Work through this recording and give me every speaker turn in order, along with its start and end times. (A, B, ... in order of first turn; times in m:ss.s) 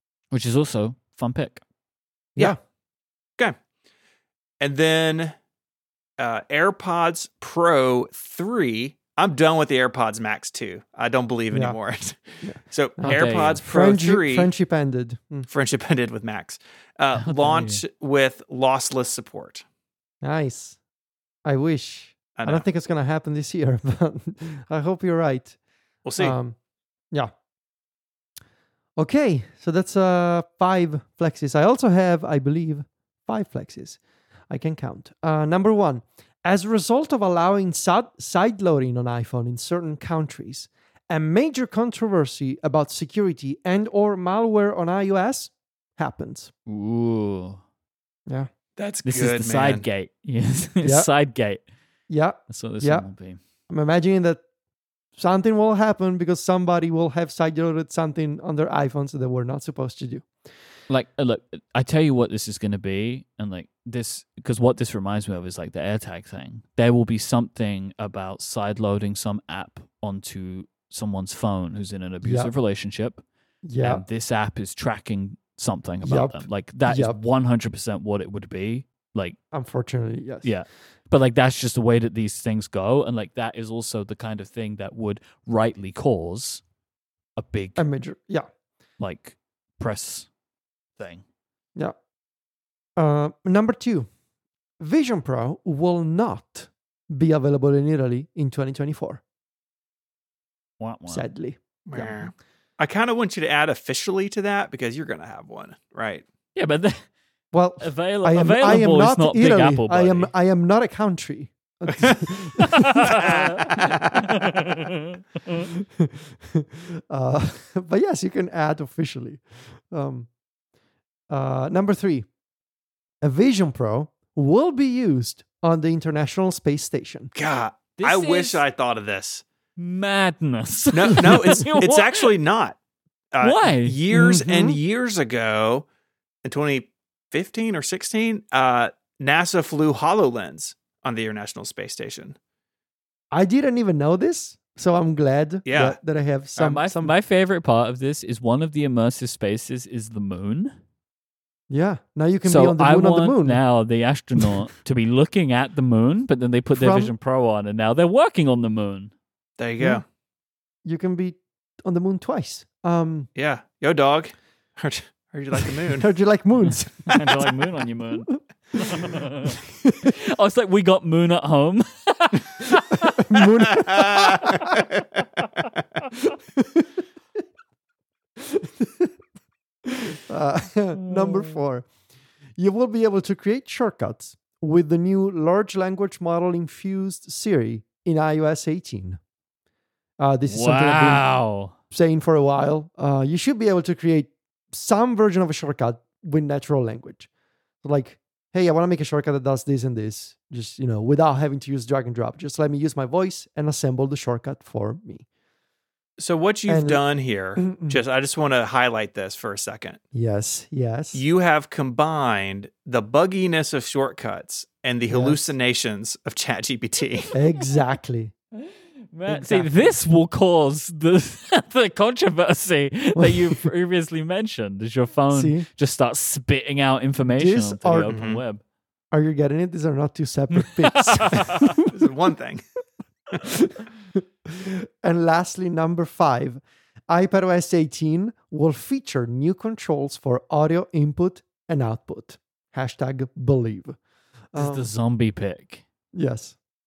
0:00.3-0:01.6 A
0:04.6-0:05.3 B
0:06.2-0:14.5 B
0:11.5-0:11.8 C
0:12.4-0:15.5 C
0:13.0-0:13.6 A
0:15.5-0:19.6 B
0:17.1-0:17.8 A
0:20.2-0:20.8 C
0:21.4-0:25.6 C
0:22.4-0:22.6 B
0:26.0-0:26.4 B
0:26.2-0:26.6 C
0:29.0-0:46.5 C
0:46.7-0:47.6 A
0:48.8-0:49.8 B
0:49.0-0:51.6 A
0:50.8-0:51.1 C
0:52.1-0:53.1 C
0:52.5-0:53.4 A
0:53.7-0:54.4 C
0:55.2-1:00.3 C
1:00.9-1:13.2 A
1:12.2-1:12.5 C
1:13.6-1:14.0 C
1:13.8-1:19.4 A
1:16.0-1:17.2 C
1:19.5-1:20.5 C
1:20.4-1:26.6 A
1:27.4-1:27.8 A
1:27.8-1:28.5 C
1:29.0-1:30.3 A
1:31.0-1:31.2 A
1:33.0-1:34.1 C
1:34.8-1:39.2 C
1:40.8-1:41.2 A
1:41.1-1:42.3 C
1:41.9-1:46.2 B
1:46.5-1:47.1 A
1:47.5-1:53.9 C
1:47.8-1:50.3 A
1:51.9-1:54.3 B
1:52.6-1:55.7 A
1:55.7-2:00.3 C
2:01.3-2:02.3 C
2:03.2-2:07.3 C
2:07.3-2:09.4 B
2:08.0-2:08.6 A
2:09.8-2:12.3 A
2:10.9-2:12.8 B
2:13.3-2:15.8 B
2:13.4-2:14.0 A
2:14.1-2:14.8 C
2:16.4-2:22.4 B
2:23.3-2:27.1 C
2:25.6-2:26.0 B
2:26.6-2:30.8 A
2:31.7-2:33.6 C
2:32.4-2:39.1 A
2:36.7-2:37.1 C
2:39.6-2:40.0 B
2:40.8-2:43.3 C
2:43.4-2:46.1 B
2:45.6-2:47.4 C
2:47.0-2:53.2 A
2:48.3-2:49.2 C
2:53.2-2:54.8 C
2:53.6-2:55.0 B
2:56.2-2:56.9 C
2:58.4-2:59.1 C
2:59.8-3:01.9 C
3:02.6-3:09.2 C
3:10.2-3:11.3 C
3:10.5-3:11.7 A
3:11.9-3:17.3 C
3:17.8-3:25.3 C
3:26.2-3:30.0 B
3:26.7-3:27.0 C
3:27.6-3:28.0 C
3:30.1-3:31.2 C
3:31.1-3:37.3 B
3:35.1-3:35.4 C
3:37.3-3:38.3 C
3:38.6-3:48.6 A
3:39.3-3:39.7 C
3:43.2-3:43.6 C
3:45.3-3:45.7 C
3:47.3-3:48.1 C
3:48.1-3:48.4 B
3:49.1-3:52.1 C
3:50.6-3:51.8 A
3:51.8-3:52.6 B
3:53.4-4:04.0 C
4:04.5-4:04.9 C
4:04.6-4:05.8 A
4:06.1-4:06.6 C